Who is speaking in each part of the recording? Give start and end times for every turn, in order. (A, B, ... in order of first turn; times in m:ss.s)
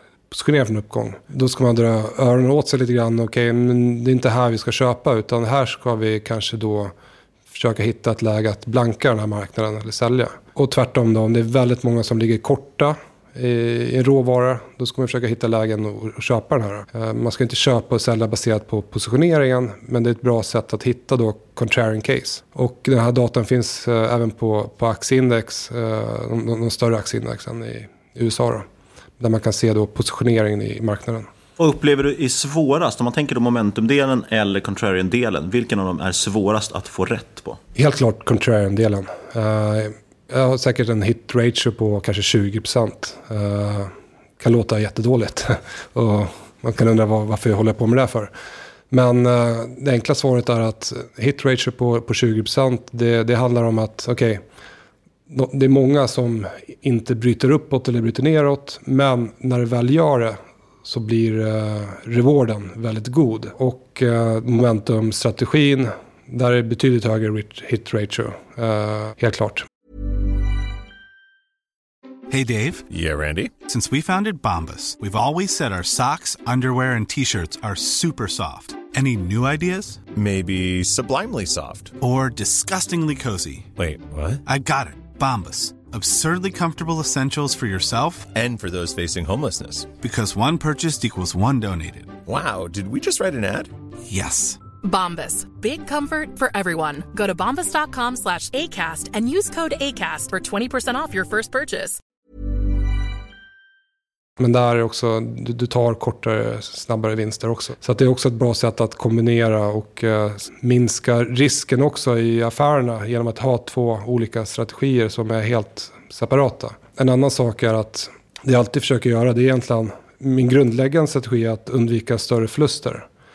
0:00.3-0:06.9 A
0:07.5-0:28.7 A
0:29.2-0:31.3 A
0:31.6-0:37.6 B
0:37.8-0:48.3 A
0:48.9-0:54.4 A
0:55.3-1:09.7 A
1:12.3-1:12.9 C
1:12.9-1:13.6 D
1:13.6-1:20.0 C
1:20.1-1:22.0 D
1:22.0-1:23.7 C
1:23.8-1:24.4 D
1:24.4-1:28.3 C
1:28.4-1:29.9 D
1:30.0-1:32.2 C
1:32.3-1:33.7 D
1:34.1-1:34.6 C
1:34.8-1:42.0 E
1:44.4-2:03.1 A